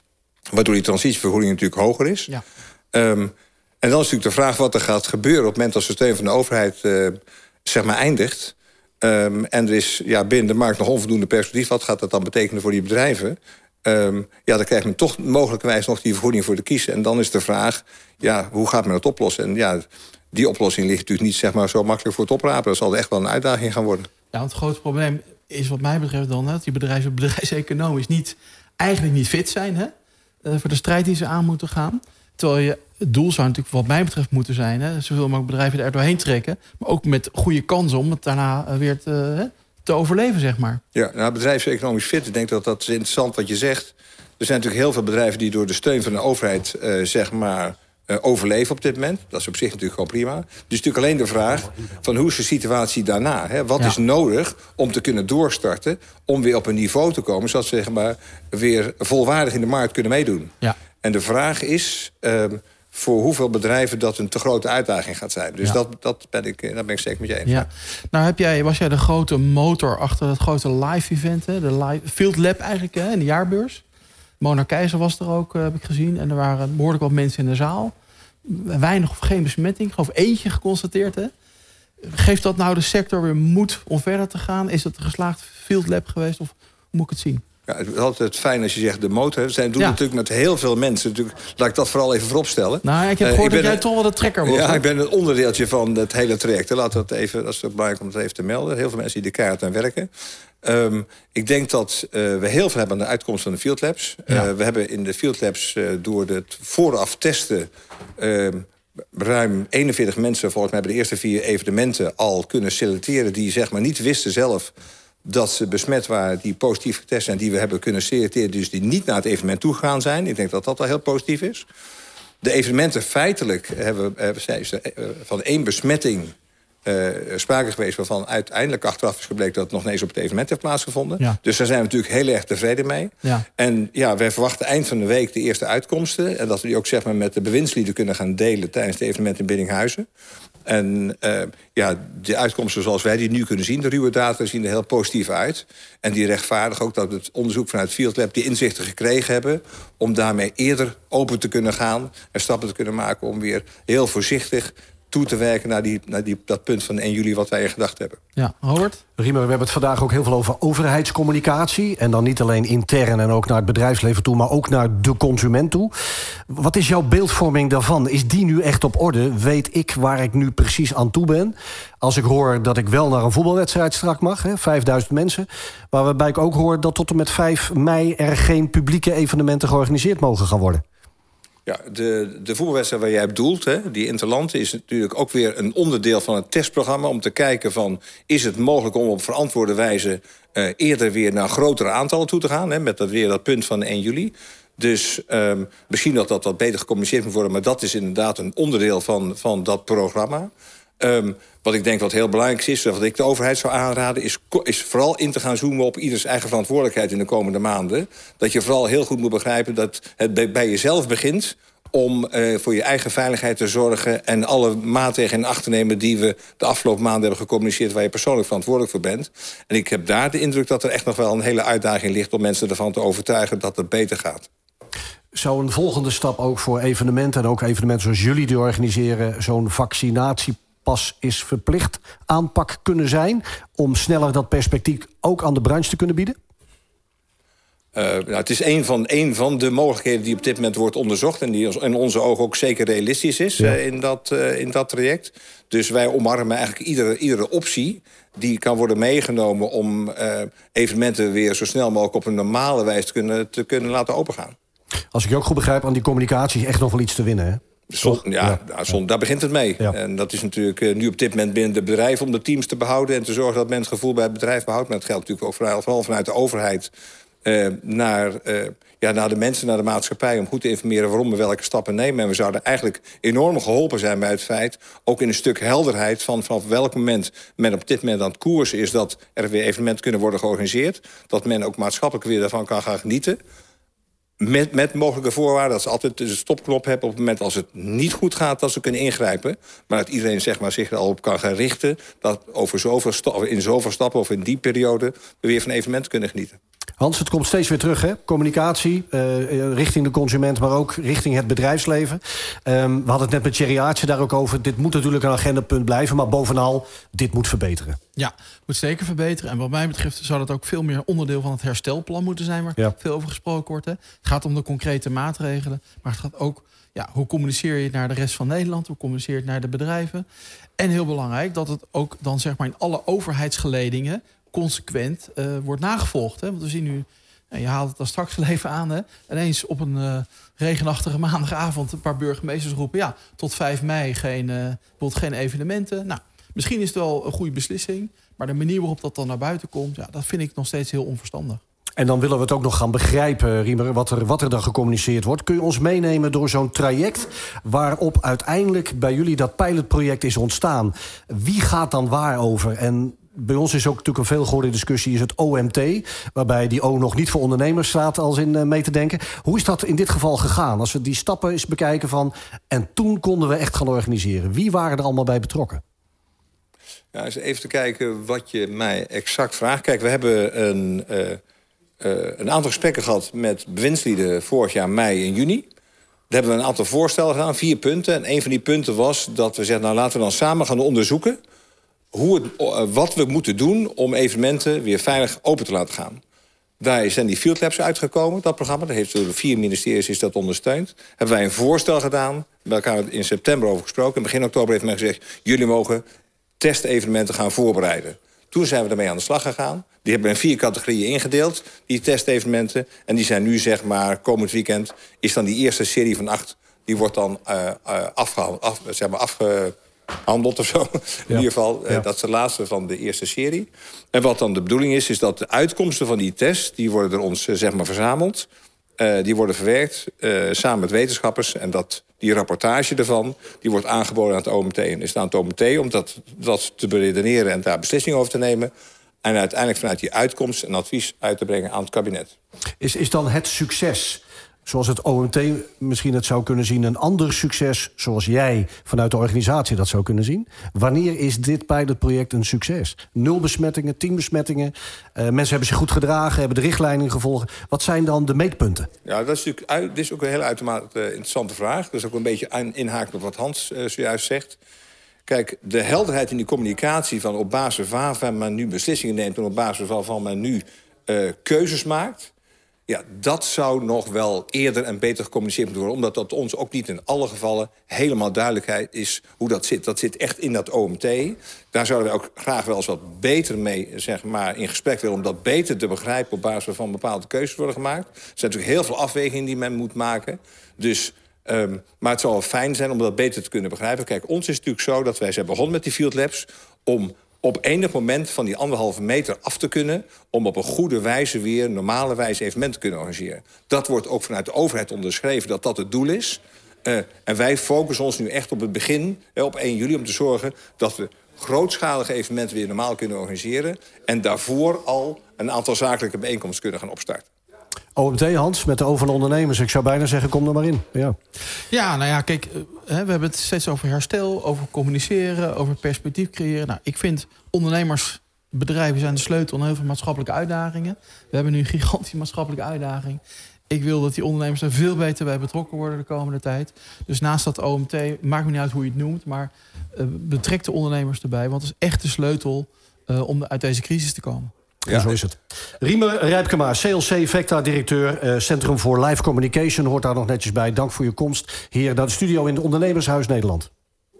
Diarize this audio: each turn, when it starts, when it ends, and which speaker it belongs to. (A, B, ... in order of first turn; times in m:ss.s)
0:00.5-0:02.3 A
0:02.9-0:24.1 A
0:24.3-0:29.9 B
0:30.4-0:40.8 B
0:40.9-1:07.7 A
1:07.5-1:13.8 B
1:14.4-1:17.9 B
1:18.4-1:21.3 B
1:22.0-1:27.4 B
1:27.7-1:33.8 A
1:32.8-1:34.8 B
1:34.4-1:40.1 A
1:40.6-1:54.7 A
1:55.2-2:01.7 A
2:02.4-2:20.1 A
2:20.6-2:38.2 A
2:38.4-2:39.0 B
2:39.2-2:45.9 C
2:46.5-3:00.8 C
3:01.7-3:44.5 A
3:45.3-3:56.4 C
3:58.0-4:14.6 A
4:15.1-4:18.6 C
4:17.9-4:26.9 A
4:27.4-4:43.4 A
4:44.4-4:56.6 A
4:57.0-5:08.0 C
5:08.2-5:20.3 B
5:20.8-5:41.6 B
5:42.0-6:05.8 C
6:07.1-6:11.4 A
6:12.0-6:15.7 A
6:16.3-6:21.4 A
6:22.1-6:26.2 A
6:26.8-6:36.0 A
6:36.6-6:58.5 A
6:51.3-6:52.0 C
6:59.0-7:08.7 A
7:09.2-7:12.3 A
7:12.8-7:28.9 C
7:29.0-7:34.6 A
7:35.3-7:42.3 A
7:42.9-8:27.3 A
8:28.0-8:31.2 C
8:31.7-8:54.5 B
8:54.9-9:03.7 C